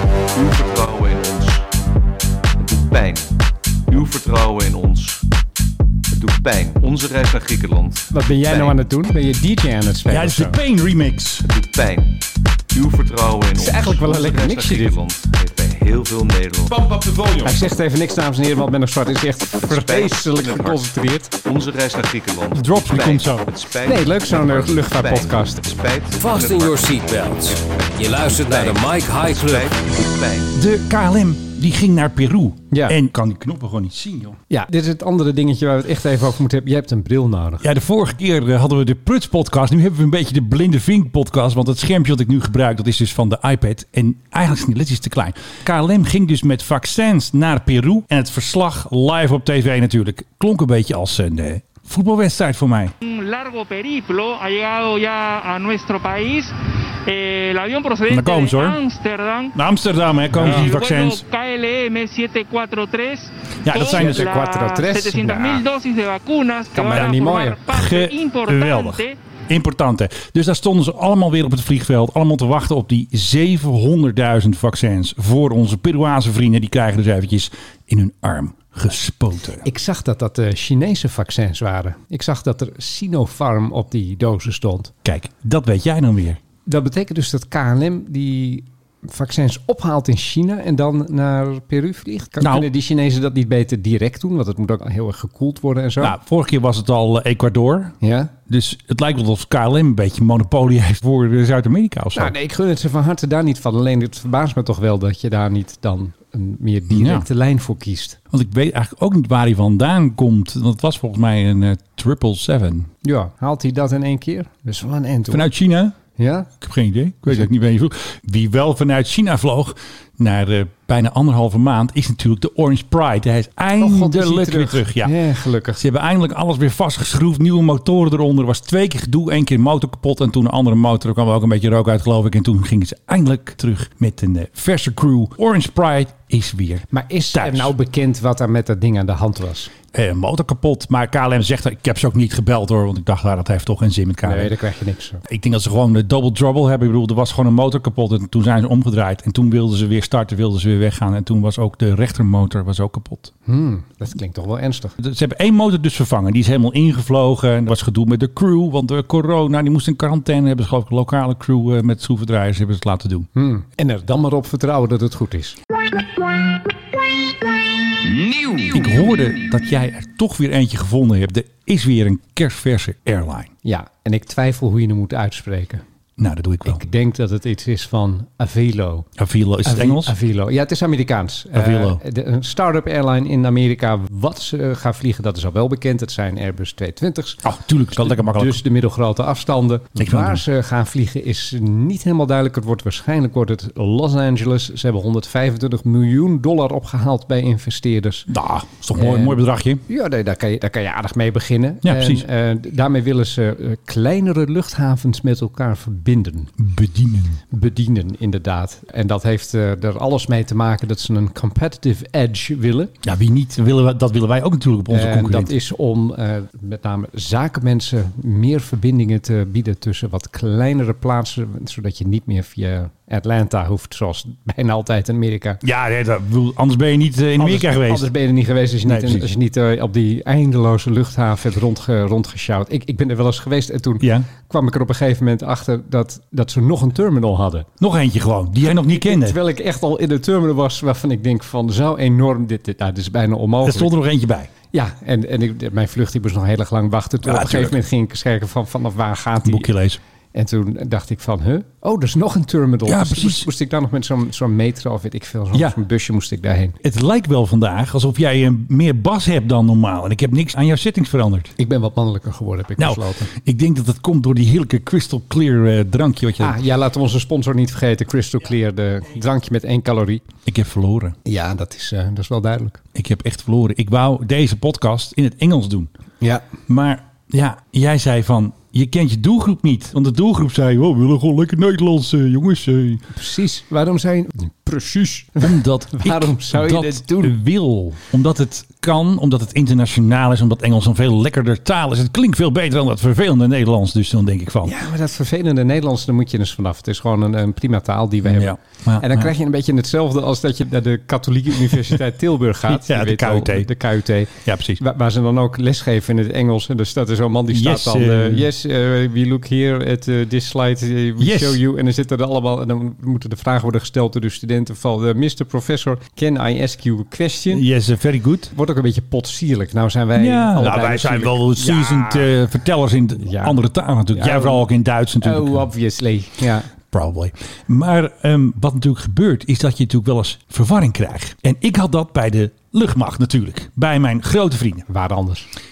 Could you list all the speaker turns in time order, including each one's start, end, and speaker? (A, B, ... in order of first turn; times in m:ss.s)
0:00.3-0:01.6 A
0:02.6-0:03.3 A
0:03.9-0:05.2 A
0:06.1-0:08.8 A
0:08.1-0:10.6 B
0:10.1-0:11.4 C
0:11.4-0:12.2 A
0:12.7-0:17.3 A
0:13.6-0:15.0 B
0:16.7-0:17.5 C
0:17.4-0:21.3 B
0:19.6-0:20.9 A
0:21.4-0:27.0 A
0:22.5-0:23.5 C
0:23.8-0:25.7 B
0:26.1-0:29.7 D
0:28.1-0:30.6 A
0:28.4-0:28.7 B
0:30.5-0:34.4 C
0:34.5-0:37.7 B
0:37.6-0:52.9 C
0:53.0-0:56.5 E
0:57.0-0:59.6 E
0:58.1-0:58.8 C
0:59.5-1:01.2 C
1:00.3-1:00.7 B
1:00.4-1:09.2 E
1:03.6-1:04.3 C
1:03.8-1:05.6 B
1:06.7-1:07.6 B
1:06.8-1:07.2 C
1:07.7-1:19.6 C
1:19.6-1:24.9 B
1:25.0-1:26.4 C
1:26.6-1:36.1 B
1:32.4-1:32.7 C
1:36.0-1:38.0 C
1:38.0-1:38.3 B
1:38.5-1:42.3 C
1:42.1-1:48.2 B
1:46.9-1:47.2 C
1:48.3-1:52.9 C
1:53.0-1:55.5 B
1:55.3-1:56.0 C
1:56.2-1:56.5 B
1:56.6-2:05.1 C
2:03.8-2:05.8 B
2:05.7-2:17.7 C
2:16.9-2:19.7 B
2:19.9-2:24.5 C
2:24.2-2:25.2 B
2:25.2-2:33.3 C
2:33.4-2:34.9 B
2:35.0-2:43.3 C
2:43.3-2:45.6 B
2:48.7-2:53.5 C
2:53.6-2:55.8 B
2:56.2-2:56.8 C
2:56.6-2:59.1 B
2:59.2-3:00.1 C
2:59.6-3:07.4 B
3:01.5-3:02.0 C
3:07.4-3:08.6 C
3:08.0-3:18.3 B
3:10.0-3:10.4 C
3:18.3-3:19.8 C
3:18.9-3:26.5 B
3:21.8-3:22.2 C
3:26.6-3:27.4 C
3:27.5-3:32.9 B
3:33.0-3:35.5 C
3:34.9-3:45.6 B
3:45.6-3:48.1 C
3:47.4-3:57.7 B
3:48.8-3:49.3 C
3:54.0-3:54.3 C
3:57.8-3:59.4 C
3:58.7-4:03.9 B
4:03.6-4:04.5 C
4:04.7-4:09.7 B
4:07.2-4:07.8 C
4:09.4-4:10.0 C
4:10.3-4:16.8 B
4:12.8-4:13.5 C
4:16.8-4:21.5 C
4:21.6-4:23.3 B
4:22.8-4:26.6 C
4:26.4-4:30.2 B
4:30.4-4:31.2 C
4:31.2-4:32.8 B
4:32.9-4:35.9 C
4:36.7-4:43.0 C
4:43.1-4:47.4 B
4:45.4-4:54.7 C
4:54.6-5:17.6 B
4:58.2-4:59.3 C
5:02.6-5:03.7 C
5:04.4-5:04.8 C
5:07.5-5:08.4 C
5:11.2-5:11.6 C
5:17.5-5:18.5 C
5:18.5-5:22.3 B
5:20.2-5:25.6 C
5:23.2-5:23.6 B
5:24.1-5:24.7 B
5:25.2-5:26.7 B
5:26.9-5:34.8 C
5:34.9-5:35.5 B